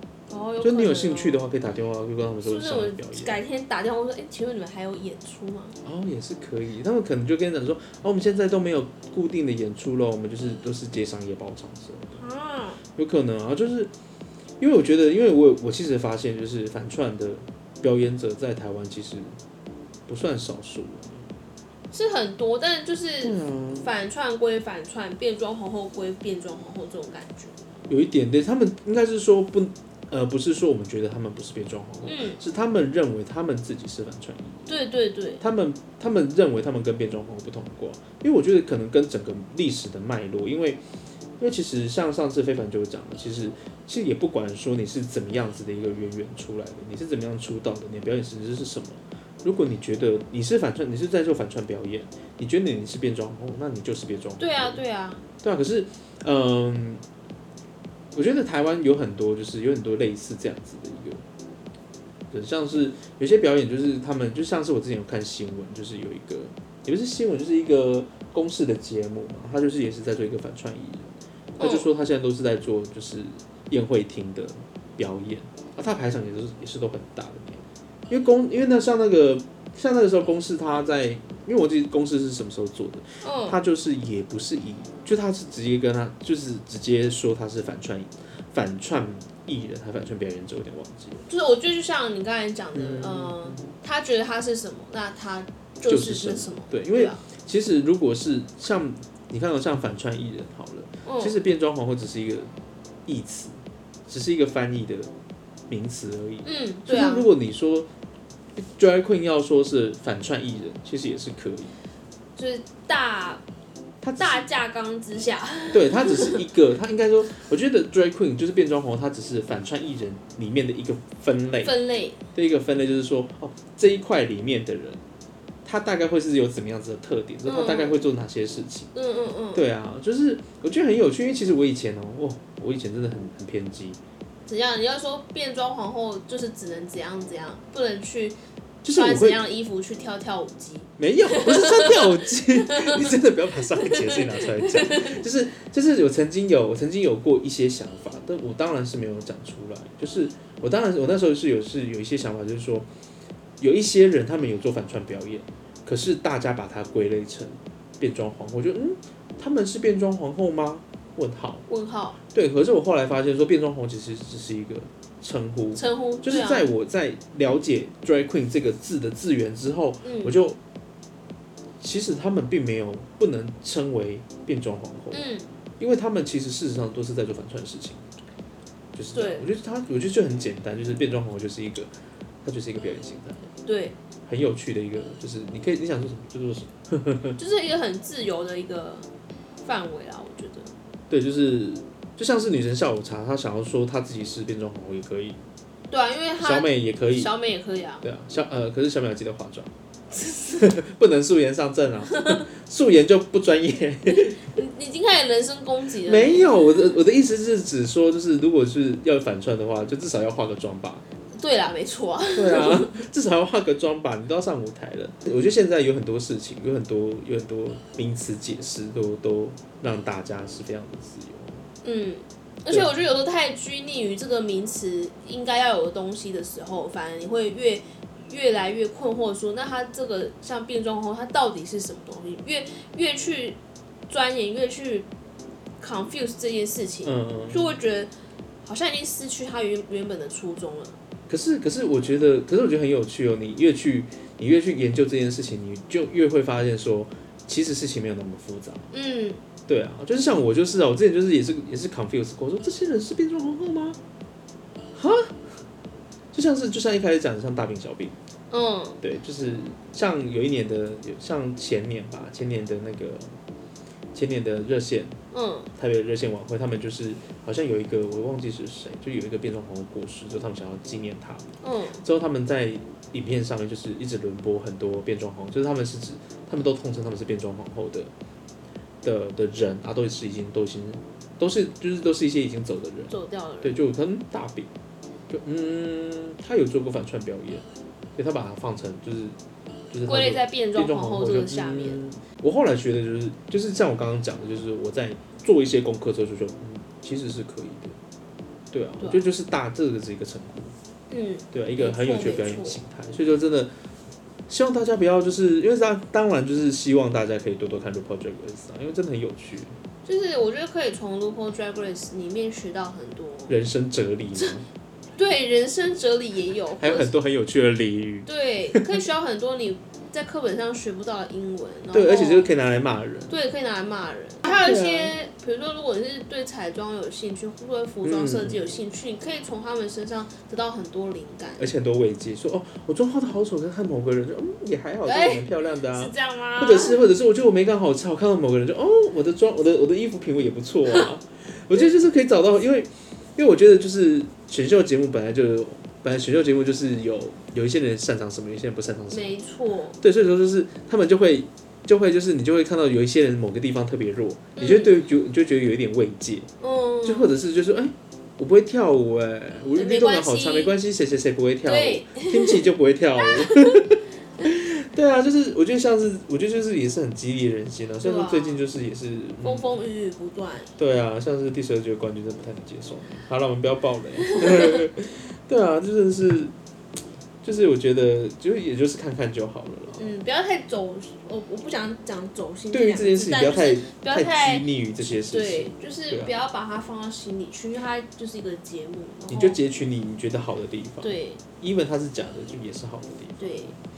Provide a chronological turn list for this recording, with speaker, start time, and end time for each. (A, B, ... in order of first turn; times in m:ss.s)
0:00.3-0:01.4 A
0:00.6-0:03.4 B
0:02.4-0:05.8 A
0:05.8-0:12.2 B
0:12.2-0:12.8 A
0:13.0-0:13.9 B
0:14.6-0:19.4 B
0:20.1-0:21.3 B
0:21.9-0:27.6 A
0:23.2-0:23.9 B
0:27.9-0:34.7 B
0:32.0-0:32.4 A
0:34.7-0:35.4 A
0:35.4-0:40.8 B
0:41.4-0:54.8 B
0:54.4-0:55.2 A
0:55.4-0:57.0 B
0:58.1-1:01.2 B
1:02.3-1:31.2 B
1:11.6-1:11.8 A
1:23.2-1:23.6 A
1:31.3-1:37.2 A
1:32.8-1:33.7 B
1:35.9-1:42.5 B
1:41.0-1:41.4 A
1:43.1-1:43.6 B
1:44.1-1:45.1 B
1:45.7-1:47.9 B
1:46.4-1:47.3 A
1:48.6-1:51.8 B
1:52.4-1:53.4 A
1:54.0-1:54.5 B
1:54.2-1:56.4 A
1:55.7-2:01.7 B
2:01.6-2:02.2 A
2:02.3-2:05.0 B
2:05.6-2:08.9 B
2:07.5-2:08.1 A
2:08.9-2:09.6 A
2:09.6-2:14.0 B
2:14.5-2:18.4 A
2:18.8-2:19.4 B
2:18.9-2:23.1 A
2:21.0-2:32.9 B
2:23.7-2:25.2 A
2:33.6-2:41.6 B
2:41.7-2:42.2 A
2:42.3-2:50.6 B
2:45.8-2:46.7 A
2:50.0-2:50.4 A
2:51.8-2:58.1 B
2:55.1-2:55.5 A
2:59.0-3:01.9 B
2:59.1-2:59.5 A
3:02.4-3:03.5 B
3:03.7-3:04.0 A
3:04.3-3:07.4 B
3:07.4-3:09.1 A
3:09.6-3:10.7 A
3:11.1-3:15.4 B
3:15.9-3:18.0 A
3:16.4-3:17.3 B
3:18.0-3:19.7 B
3:20.1-3:20.6 A
3:20.5-3:24.4 B
3:22.1-3:22.4 A
3:24.1-3:26.6 A
3:26.0-3:31.0 B
3:31.4-3:32.9 A
3:32.4-3:41.7 B
3:41.8-3:53.6 A
3:54.1-3:55.1 A
3:55.8-3:58.1 A
3:57.0-3:57.7 B
3:58.6-4:01.0 A
4:01.3-4:08.9 B
4:08.9-4:09.4 A
4:09.7-4:14.0 B
4:15.0-4:15.4 B
4:16.3-4:18.2 B
4:18.5-4:19.0 A
4:19.0-4:23.4 B
4:24.1-4:25.2 B
4:25.3-4:25.7 A
4:25.8-4:31.5 B
4:31.6-4:32.0 A
4:32.0-4:38.1 B
4:39.0-4:44.7 B
4:43.1-4:43.7 A
4:45.3-4:47.6 B
4:48.2-4:49.4 B
4:49.9-4:58.0 B
4:50.1-4:52.0 A
4:58.7-5:00.7 B
4:59.0-4:59.2 A
5:01.1-5:02.8 A
5:01.5-5:03.7 B
5:04.5-5:09.8 B
5:10.0-5:13.6 A
5:13.5-5:14.7 B
5:15.2-5:17.1 A
5:16.8-5:19.0 B
5:18.3-5:22.5 A
5:21.9-5:23.4 B
5:23.3-5:31.6 A
5:24.4-5:25.1 B
5:28.0-5:28.6 B
5:31.6-5:49.3 B
5:35.0-5:37.1 A
5:49.1-5:50.0 A
5:50.0-5:56.5 B
5:54.6-5:55.0 A
5:56.6-5:57.3 A
5:57.0-6:09.8 B
5:59.8-6:00.8 A
6:01.6-6:02.6 A
6:03.2-6:03.8 A
6:08.0-6:08.6 A
6:09.4-6:10.7 A
6:10.8-6:16.5 B
6:14.3-6:14.8 A
6:17.4-6:20.1 B
6:20.0-6:29.6 A
6:22.7-6:26.3 B
6:29.3-6:33.8 B
6:31.0-6:31.4 A
6:33.4-6:33.8 A